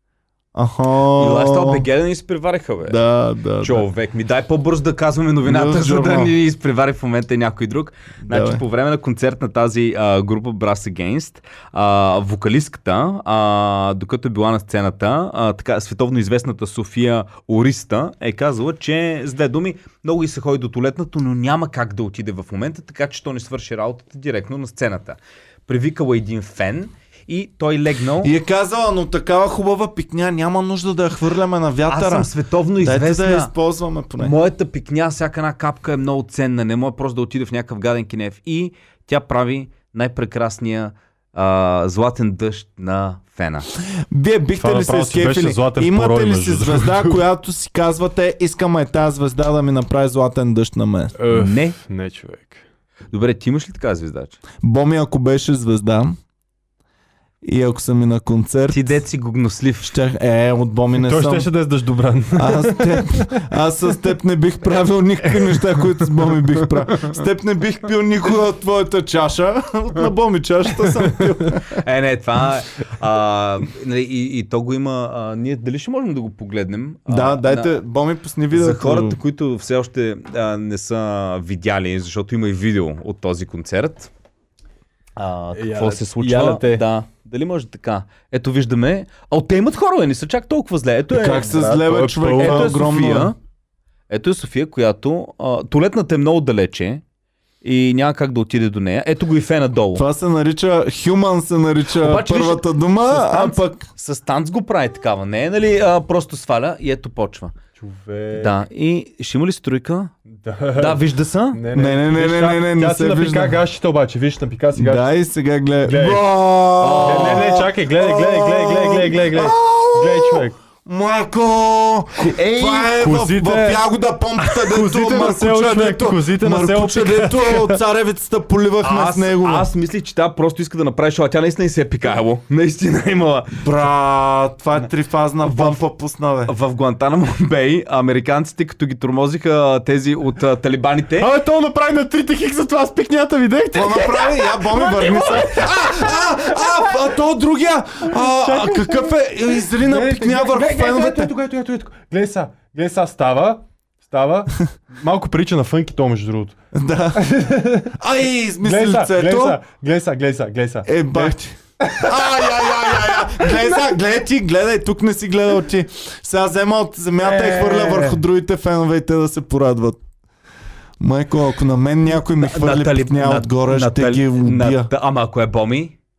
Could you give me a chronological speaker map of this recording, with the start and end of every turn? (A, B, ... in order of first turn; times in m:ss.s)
0:00.5-0:01.8 A
0:01.1-0:03.0 B
0:02.8-0:03.8 A
0:03.6-0:28.3 B
0:05.4-0:06.3 A
0:08.2-0:08.6 A
0:28.2-0:34.3 A
0:31.9-0:33.5 B
0:34.2-0:43.7 B
0:44.1-0:51.1 A
0:44.6-0:47.2 C
0:51.2-0:52.6 C
0:51.3-0:51.8 B
0:53.1-0:54.4 B
0:54.6-0:56.1 A
0:57.4-0:58.8 A
0:58.7-0:59.9 B
0:59.8-1:01.5 A
1:01.0-1:03.4 C
1:02.3-1:11.8 A
1:05.6-1:07.2 B
1:11.7-1:17.7 B
1:17.1-1:19.2 A
1:18.5-1:24.1 B
1:25.2-1:31.5 B
1:25.5-1:26.8 C
1:31.1-1:33.3 A
1:31.2-1:32.8 C
1:32.3-1:33.4 B
1:34.1-1:37.0 B
1:37.6-1:40.0 B
1:39.9-1:43.9 A
1:41.9-1:47.5 B
1:47.8-1:48.5 C
1:48.3-1:50.1 B
1:50.4-1:51.0 C
1:50.7-1:51.6 B
1:51.5-1:55.0 C
1:51.7-1:53.6 A
1:54.7-2:09.7 A
1:55.8-1:56.4 C
1:56.8-1:57.6 B
1:57.0-2:00.6 C
2:02.2-2:03.8 C
2:02.4-2:02.9 B
2:04.4-2:07.8 C
2:08.8-2:13.6 B
2:13.6-2:16.5 A
2:15.4-2:15.9 B
2:16.4-2:21.3 B
2:21.2-2:25.5 C
2:23.7-2:31.3 A
2:28.1-2:29.2 C
2:29.7-2:36.5 C
2:36.7-2:37.3 A
2:37.1-2:38.0 C
2:38.0-2:39.6 A
2:38.6-2:43.5 C
2:40.8-2:50.0 A
2:47.2-2:48.2 C
2:51.0-2:54.9 A
2:52.4-2:55.9 B